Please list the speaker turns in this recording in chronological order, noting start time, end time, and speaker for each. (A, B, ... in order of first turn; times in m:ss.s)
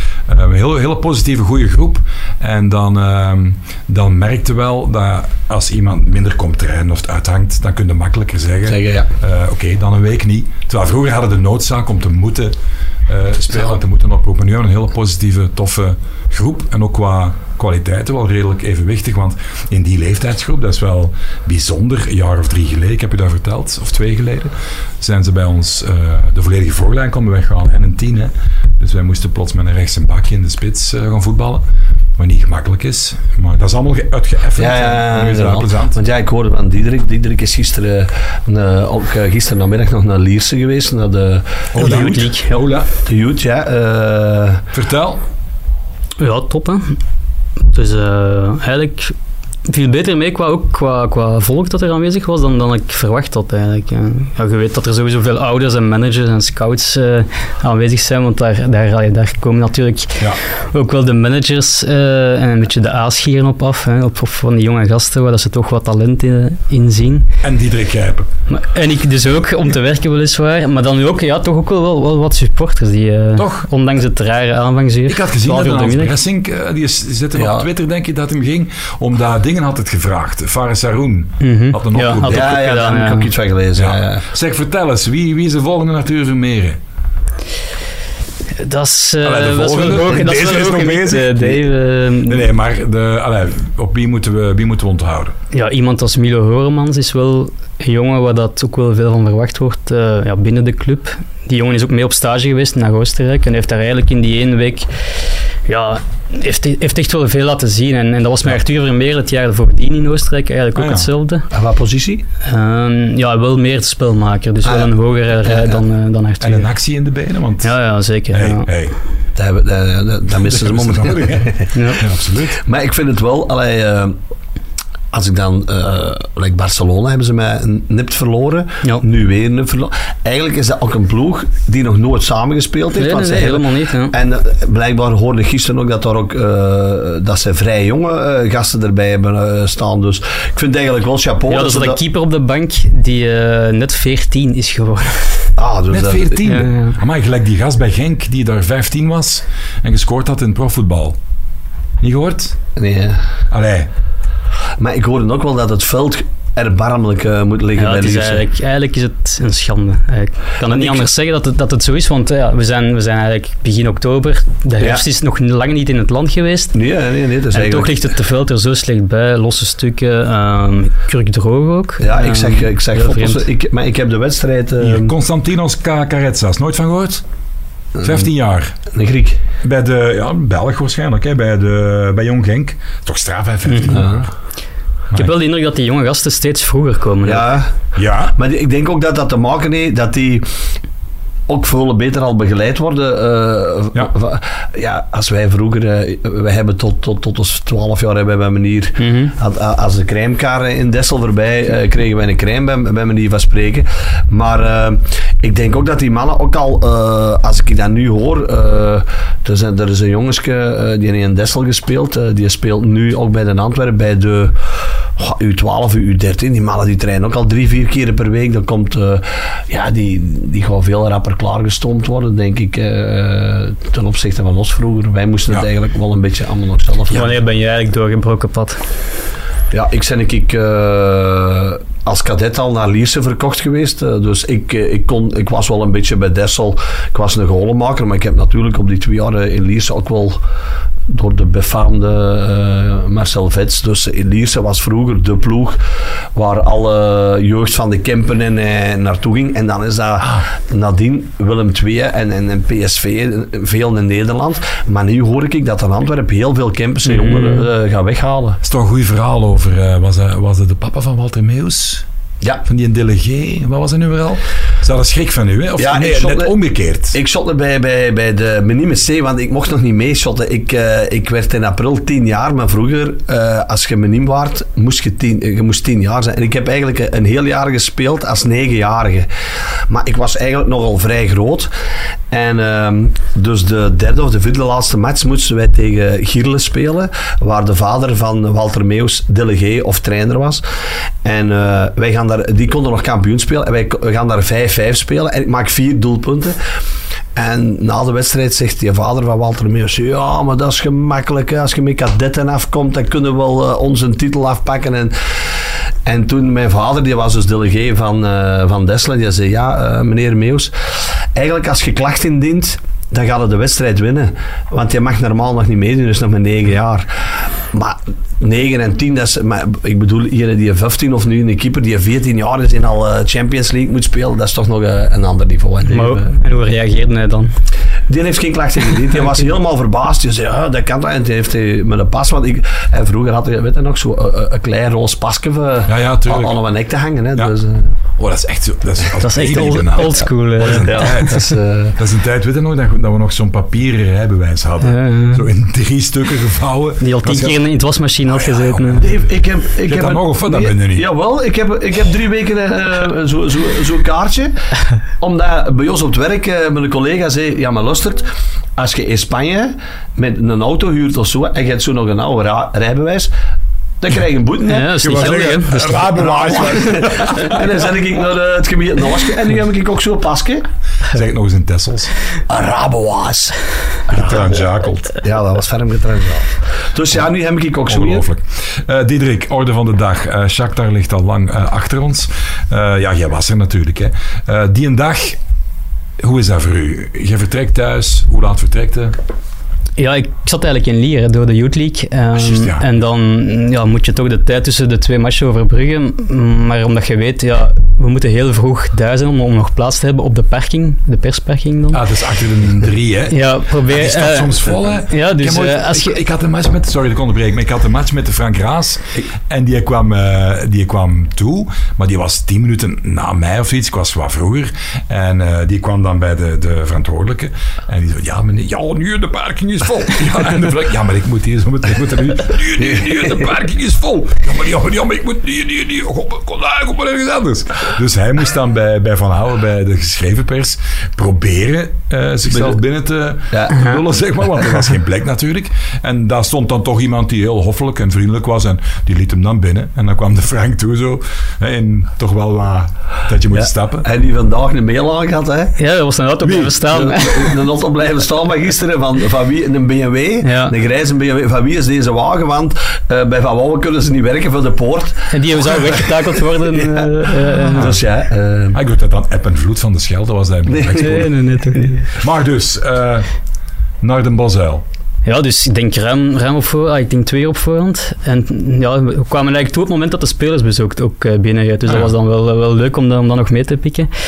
0:00.3-0:12.5 A
0:08.7-0:09.1 B
0:13.1-0:31.6 A
0:32.2-0:36.0 A
0:34.6-0:42.2 B
0:41.7-0:42.9 A
0:41.8-0:42.6 C
0:43.0-0:44.6 B
0:44.7-0:45.2 A
0:46.2-0:47.0 C
0:47.7-0:49.1 C
0:49.6-1:07.3 C
1:07.4-1:08.3 A
1:08.5-1:16.1 C
1:13.4-1:13.7 A
1:15.1-1:22.6 A
1:17.3-1:17.6 B
1:21.4-1:23.3 C
1:22.2-1:24.2 B
1:23.8-1:26.8 A
1:28.6-1:32.5 C
1:29.2-1:31.6 A
1:32.2-1:35.3 A
1:35.5-1:44.9 C
1:45.6-1:51.5 C
1:50.7-1:51.1 A
1:51.5-1:52.2 B
1:52.4-1:56.7 C
1:54.6-1:54.9 B
1:55.4-1:55.8 B
1:56.4-1:57.7 A
1:57.6-1:58.7 C
1:58.3-1:58.9 A
1:59.4-2:01.9 B
2:00.4-2:02.6 A
2:01.7-2:02.0 C
2:02.5-2:04.2 B
2:05.1-2:22.0 B
2:12.9-2:14.1 C
2:21.5-2:25.5 C
2:25.6-2:26.4 B
2:25.9-2:31.2 A
2:26.4-2:27.0 C
2:32.0-2:32.6 A
2:32.8-2:33.2 B
2:33.5-2:33.9 A
2:34.8-2:38.4 B
2:37.8-2:46.7 C
2:40.7-2:41.1 B
2:46.7-2:48.0 B
2:47.5-2:53.4 C
2:52.0-2:55.1 B
2:54.8-2:57.2 A
2:58.0-2:58.8 A
2:58.9-2:59.4 B
2:59.6-3:04.3 A
3:03.7-3:04.0 C
3:03.9-3:04.3 B
3:05.1-3:07.5 C
3:07.2-3:07.7 B
3:07.9-3:08.3 A
3:08.4-3:10.5 B
3:11.5-3:34.6 B
3:19.0-3:19.3 C
3:35.2-3:47.3 B
3:47.1-3:48.8 C
3:49.7-4:00.4 B
4:01.1-4:05.8 B
4:06.3-4:18.6 B
4:17.0-4:17.6 C
4:18.6-4:22.0 A
4:22.6-4:27.2 A
4:25.8-4:26.6 B
4:27.1-4:39.3 B
4:39.9-4:41.7 B
4:42.3-4:50.6 B
4:51.2-4:56.6 B
4:57.3-5:05.5 B
5:06.0-5:10.7 B
5:11.3-5:26.3 B
5:25.9-5:27.5 C
5:28.1-5:38.0 B
5:35.9-5:36.6 A
5:38.2-5:47.6 A
5:39.2-5:41.3 C
5:40.7-5:42.0 B
5:44.8-5:45.4 C
5:47.0-5:49.1 C
5:48.3-5:49.2 A
5:49.0-5:54.5 B
5:49.8-5:51.1 A
5:55.2-6:03.3 B
6:04.0-6:10.6 B
6:04.6-6:06.1 C
6:05.0-6:07.8 A
6:06.7-6:07.3 C
6:11.1-6:12.1 A
6:12.5-6:13.6 B
6:14.1-6:14.5 B
6:14.1-6:15.1 A
6:15.2-6:18.2 B
6:17.9-6:25.4 A
6:26.2-6:29.1 A
6:30.0-6:42.0 C
6:32.3-6:32.9 A
6:41.9-7:24.0 A
6:43.3-6:46.2 C
7:12.5-7:12.8 B
7:13.5-7:13.9 B
7:23.5-7:25.8 B
7:25.8-7:27.6 C
7:26.4-7:26.7 A
7:26.8-7:38.8 B
7:30.4-7:30.7 C
7:35.3-7:37.9 C
7:37.7-7:38.0 A
7:38.7-7:41.3 A
7:40.7-7:41.3 B
7:40.9-7:42.1 C
7:42.1-7:43.3 A
7:44.0-7:44.8 A
7:45.2-7:54.1 C